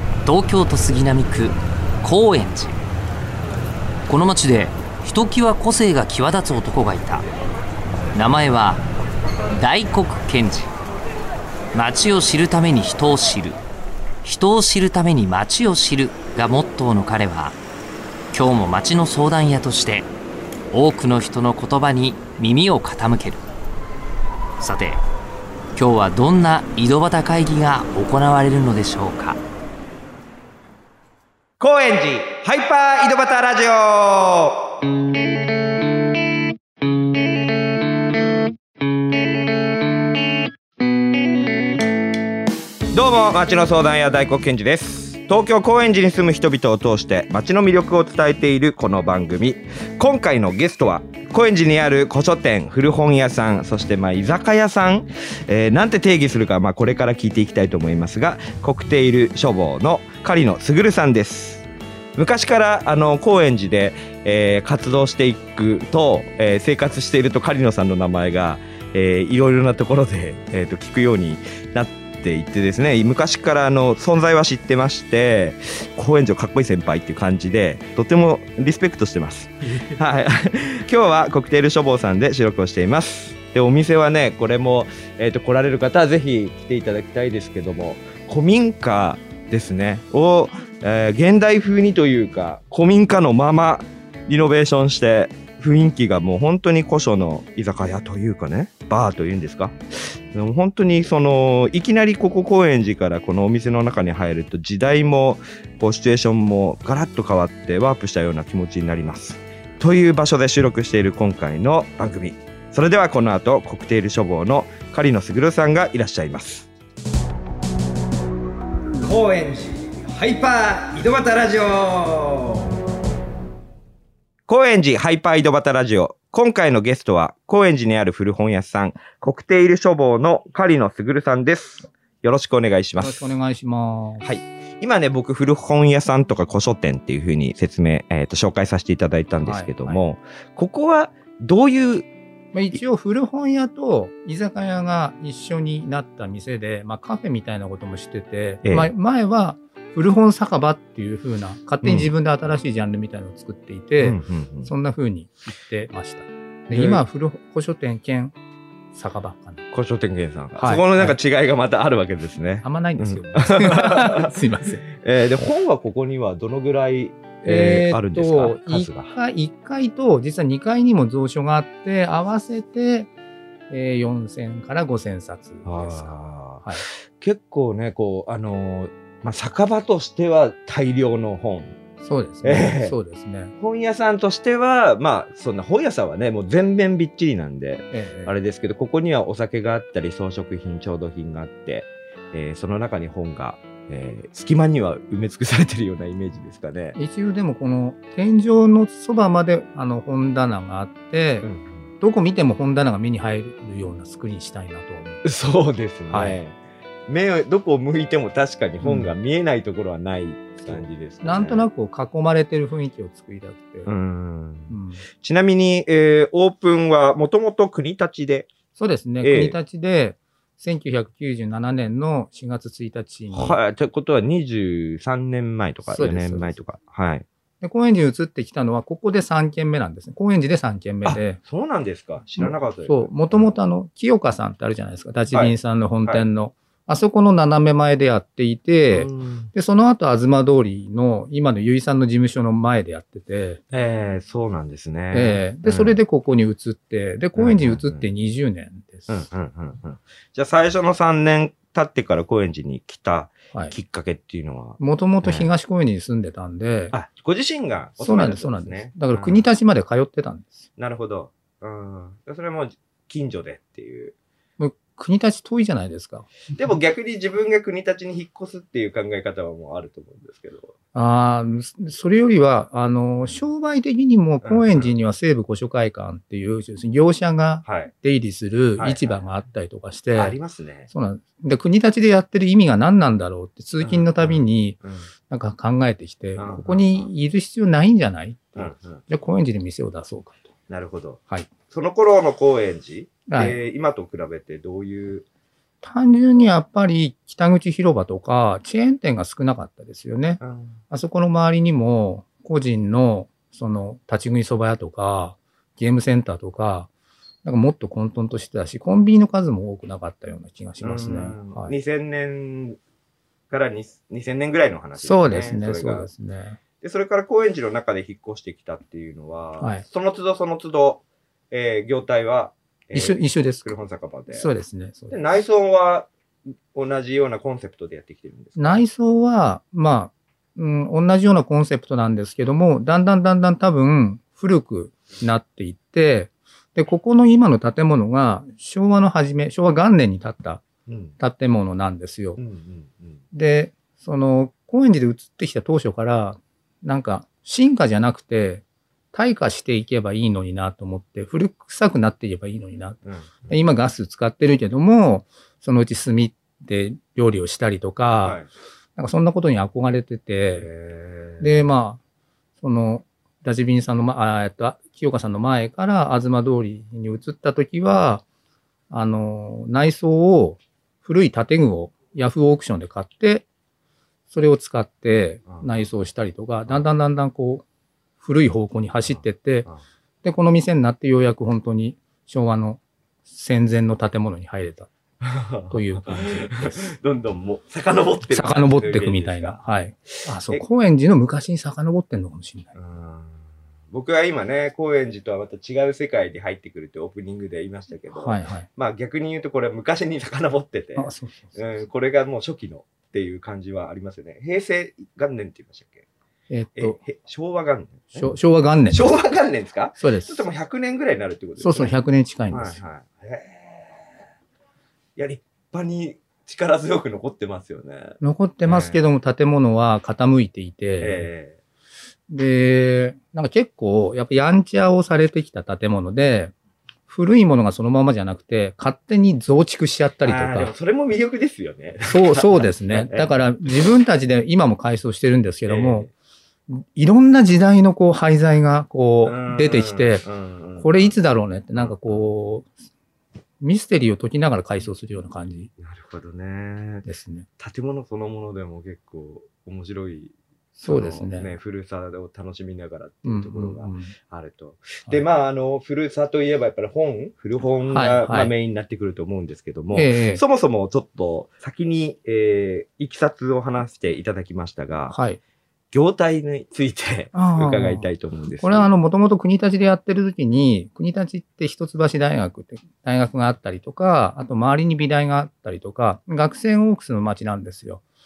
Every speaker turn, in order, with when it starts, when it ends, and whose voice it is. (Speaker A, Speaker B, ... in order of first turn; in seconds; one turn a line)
Speaker A: 0.2-2.8
Speaker A: 4.1-7.2
Speaker A: 8.1-8.8
Speaker A: 9.5-10.7
Speaker A: 11.7-13.6
Speaker A: 14.2-17.6
Speaker A: 18.3-20.1
Speaker A: 20.7-23.4
Speaker A: 24.6-25.0
Speaker A: 25.8-29.4
Speaker B: 31.6-34.7
Speaker B: 42.9-61.6
Speaker B: 62.1-116.7
Speaker B: 119.0-122.7
Speaker B: 124.5-133.3
Speaker C: 133.0-134.3
Speaker B: 134.2-142.1
Speaker C: 139.4-140.0
Speaker C: 142.5-158.3
Speaker B: 148.6-148.9
Speaker B: 151.8-152.1
Speaker B: 154.0-154.7
Speaker B: 156.7-157.0
Speaker C: 158.9-159.7
Speaker B: 159.7-164.3
Speaker C: 160.6-161.2
Speaker C: 162.6-164.8
Speaker B: 165.0-169.1
Speaker C: 167.4-173.1
Speaker C: 173.7-176.1
Speaker B: 175.6-181.8
Speaker C: 182.0-183.5
Speaker B: 182.4-182.9
Speaker B: 183.6-197.0
Speaker C: 187.9-188.3
Speaker C: 196.9-201.5
Speaker B: 201.4-201.9
Speaker C: 202.0-205.2
Speaker B: 205.2-211.7
Speaker C: 206.1-206.4
Speaker C: 208.8-209.1
Speaker C: 210.6-213.9
Speaker B: 213.8-218.5
Speaker C: 214.7-215.0
Speaker C: 218.7-223.6
Speaker B: 219.2-219.6
Speaker B: 223.3-227.2
Speaker C: 225.8-226.6
Speaker C: 227.6-231.4
Speaker B: 231.0-233.6
Speaker C: 232.4-243.6
Speaker B: 235.3-236.2
Speaker B: 238.9-239.5
Speaker B: 243.7-246.0
Speaker C: 245.1-249.2
Speaker B: 247.4-248.1
Speaker B: 249.1-255.5
Speaker C: 254.8-256.9
Speaker B: 256.9-259.4
Speaker C: 258.0-260.7
Speaker B: 260.8-264.1
Speaker C: 264.6-266.3
Speaker B: 266.5-270.7
Speaker C: 270.9-280.4
Speaker B: 274.4-274.9
Speaker B: 277.6-277.9
Speaker B: 278.8-279.2
Speaker B: 280.1-280.9
Speaker C: 280.9-290.5
Speaker B: 283.8-285.1
Speaker B: 286.4-287.1
Speaker B: 288.6-289.0
Speaker B: 290.7-295.2
Speaker C: 293.3-293.6
Speaker C: 295.8-306.9
Speaker B: 300.4-300.8
Speaker C: 307.4-311.7
Speaker B: 310.8-312.8
Speaker B: 313.5-316.1
Speaker C: 315.0-316.6
Speaker B: 316.8-324.5
Speaker C: 319.6-319.8
Speaker C: 322.9-323.7
Speaker C: 324.3-325.2
Speaker B: 325.1-326.1
Speaker B: 326.7-328.8
Speaker C: 328.6-340.6
Speaker B: 340.9-341.1
Speaker C: 341.2-342.4
Speaker B: 342.4-343.2
Speaker C: 343.3-358.4
Speaker B: 353.0-353.6
Speaker B: 358.2-358.5
Speaker C: 358.9-360.7
Speaker B: 360.5-361.6
Speaker C: 361.4-362.0
Speaker C: 362.6-368.2
Speaker C: 368.9-373.4
Speaker C: 374.3-377.6
Speaker B: 375.5-375.8
Speaker C: 378.2-379.7
Speaker C: 380.2-384.9
Speaker B: 385.2-389.6
Speaker C: 385.7-386.9
Speaker C: 388.3-392.7
Speaker B: 390.1-390.6
Speaker B: 392.7-406.1
Speaker C: 398.1-398.7
Speaker C: 400.9-401.7
Speaker C: 406.5-407.0
Speaker B: 406.8-408.3
Speaker C: 408.1-409.1
Speaker B: 408.9-412.0
Speaker C: 409.9-410.5
Speaker C: 411.6-412.8
Speaker B: 412.5-414.3
Speaker B: 415.1-419.0
Speaker C: 418.2-421.3
Speaker B: 421.0-421.6
Speaker C: 422.3-426.5
Speaker C: 427.1-430.7
Speaker B: 430.2-433.7
Speaker C: 432.1-436.1
Speaker B: 435.7-436.1
Speaker C: 436.7-440.2
Speaker B: 439.2-441.2
Speaker C: 440.8-442.7
Speaker B: 441.7-442.3
Speaker C: 443.6-445.7
Speaker B: 445.8-447.1
Speaker C: 447.0-447.5
Speaker B: 447.6-465.2
Speaker C: 450.8-451.5
Speaker C: 453.2-454.1
Speaker C: 457.9-458.5
Speaker C: 459.9-460.4
Speaker C: 465.1-465.4
Speaker B: 465.9-468.9
Speaker C: 467.3-478.0